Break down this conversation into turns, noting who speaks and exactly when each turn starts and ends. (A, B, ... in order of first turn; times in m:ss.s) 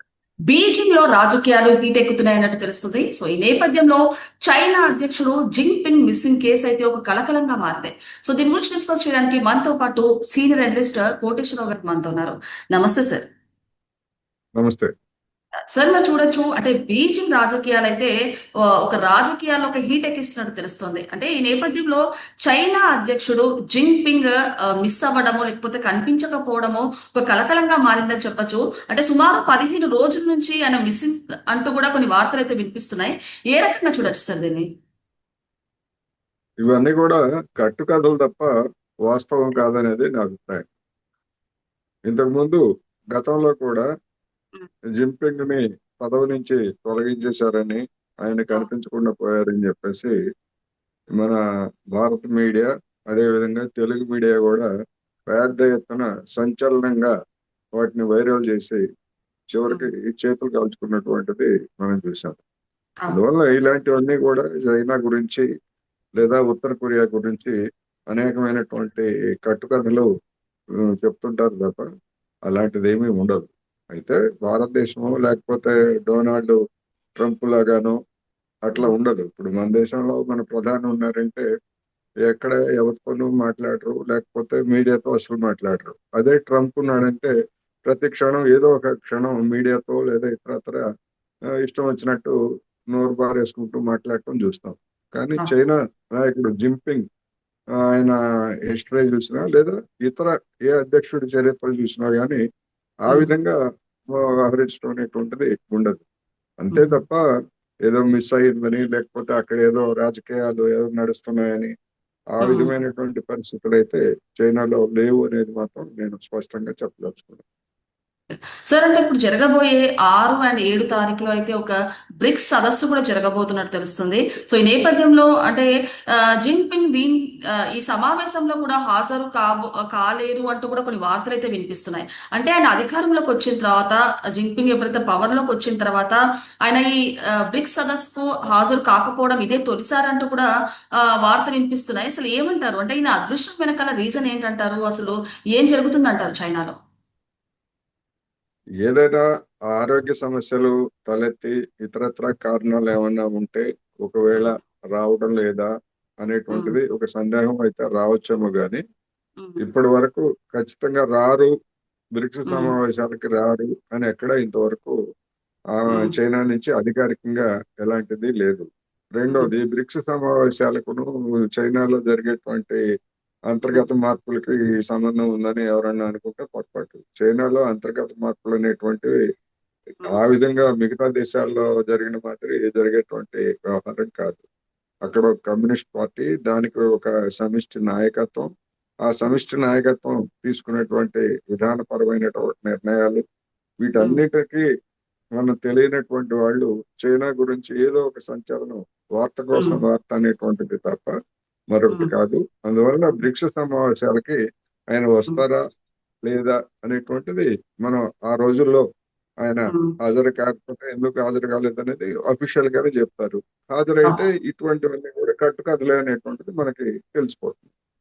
0:00.5-0:13.2 A
0:14.6-0:14.9 B
0:15.7-0:18.1 A
0:18.8-0:34.6 A
0:36.6-0:38.5 B
0:39.0-0:40.7 B
0:42.1-0:42.6 B
0:43.1-0:43.8 B
0:45.0-0:50.1 B
0:51.9-0:54.7 B
0:55.3-0:57.1 B
0:57.8-0:58.8 B
0:59.5-1:02.4 B
1:03.1-1:05.4 B
1:06.2-1:07.5 B
1:08.1-1:10.1 B
1:11.0-1:11.8 B
1:12.5-1:16.6 B
1:17.2-1:18.0 B
1:18.6-1:21.4 B
1:22.2-1:27.3 B
1:27.9-1:30.8 B
1:31.6-1:32.3 B
1:32.9-1:37.0 B
1:37.9-1:38.2 B
1:38.7-1:42.4 B
1:43.1-1:43.6 B
1:44.1-1:46.0 B
1:46.6-1:47.2 B
1:46.7-1:47.0 A
1:47.9-1:51.7 B
1:52.3-1:57.4 B
1:52.4-1:52.7 A
1:58.7-2:05.7 A
2:06.4-2:07.2 A
2:07.7-2:17.0 A
2:17.5-2:20.5 A
2:21.2-2:26.7 A
2:28.8-2:29.2 B
2:29.7-2:35.7 B
2:36.2-2:38.8 B
2:36.5-2:36.8 A
2:39.4-2:39.7 A
2:39.6-2:41.5 B
2:42.2-2:45.0 B
2:42.5-2:42.7 A
2:45.8-2:52.8 B
2:53.5-2:59.2 B
3:00.0-3:04.4 B
3:05.0-3:08.5 B
3:09.0-3:13.2 B
3:13.8-3:14.6 B
3:15.4-3:21.1 B
3:21.7-3:24.4 B
3:24.9-3:25.6 B
3:26.3-3:28.8 B
3:29.4-3:37.7 B